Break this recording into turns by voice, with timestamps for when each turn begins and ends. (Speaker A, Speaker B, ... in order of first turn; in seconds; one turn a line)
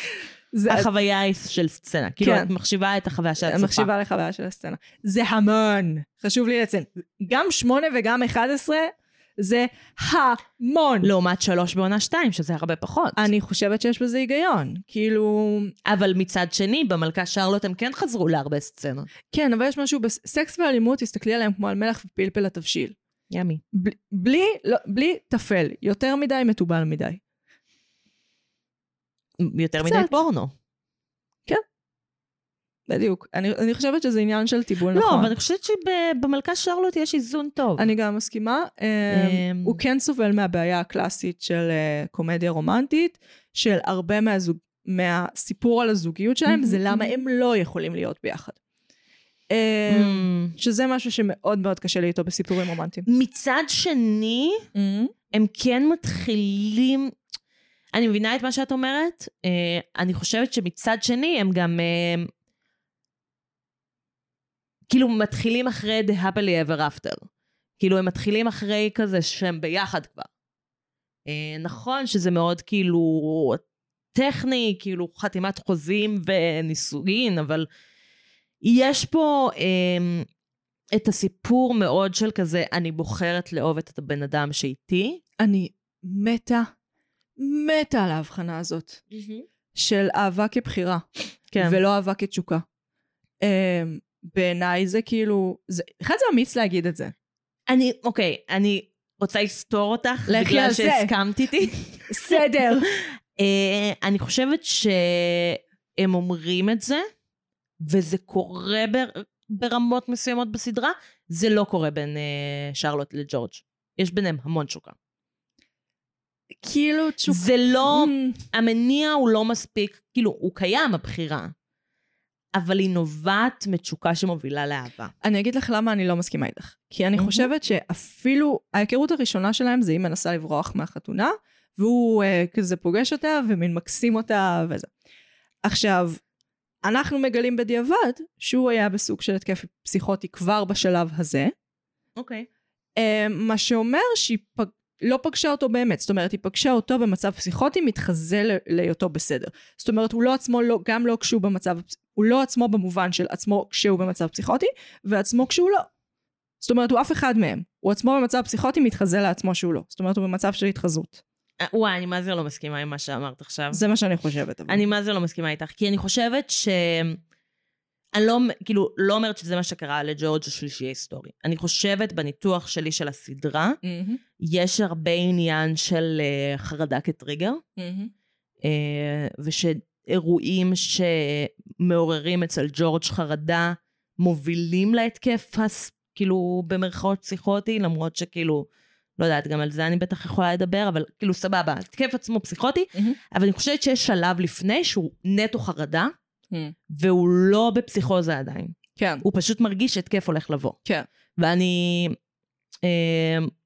Speaker A: 0.5-0.9
Speaker B: 0.7-3.9
Speaker A: 2.2-2.5
Speaker A: 3.4-11.1
Speaker B: 11.0-13.3
Speaker A: 13.2-15.7
Speaker B: 15.8-19.1
Speaker A: 19.3-22.9
Speaker B: 23.3-23.6
Speaker A: 23.7-27.2
Speaker B: 29.4-30.5
Speaker A: 29.8-30.1
Speaker A: 32.9-35.3
Speaker B: 34.9-37.9
Speaker A: 37.8-48.6
Speaker B: 39.1-39.8
Speaker B: 46.5-47.2
Speaker A: 49.5-53.0
Speaker B: 49.9-50.5
Speaker B: 53.0-54.6
Speaker A: 54.7-55.1
Speaker B: 55.3-57.1
Speaker B: 57.9-62.3
Speaker B: 64.9-67.2
Speaker B: 67.8-70.3
Speaker B: 71.3-73.6
Speaker B: 74.1-77.7
Speaker B: 78.6-80.3
Speaker B: 80.9-85.2
Speaker A: 85.4-86.7
Speaker A: 87.4-89.0
Speaker B: 89.1-89.5
Speaker A: 89.7-91.0
Speaker B: 91.5-91.8
Speaker A: 91.6-92.6
Speaker A: 93.4-97.1
Speaker B: 97.7-107.0
Speaker A: 100.3-101.1
Speaker A: 102.1-102.9
Speaker B: 107.8-115.0
Speaker A: 116.6-118.4
Speaker B: 117.3-121.5
Speaker B: 122.5-125.1
Speaker A: 125.2-134.9
Speaker B: 127.2-127.5
Speaker A: 135.6-136.2
Speaker A: 136.8-141.5
Speaker B: 142.2-142.5
Speaker A: 143.0-155.9
Speaker A: 156.6-161.2
Speaker B: 161.6-163.8
Speaker A: 163.7-164.8
Speaker B: 164.7-167.2
Speaker B: 168.1-173.8
Speaker A: 173.8-174.2
Speaker B: 174.4-177.6
Speaker A: 177.8-178.1
Speaker B: 178.6-188.7
Speaker B: 189.2-196.1
Speaker B: 196.9-200.8
Speaker A: 199.0-199.2
Speaker B: 201.4-202.2
Speaker B: 202.8-203.5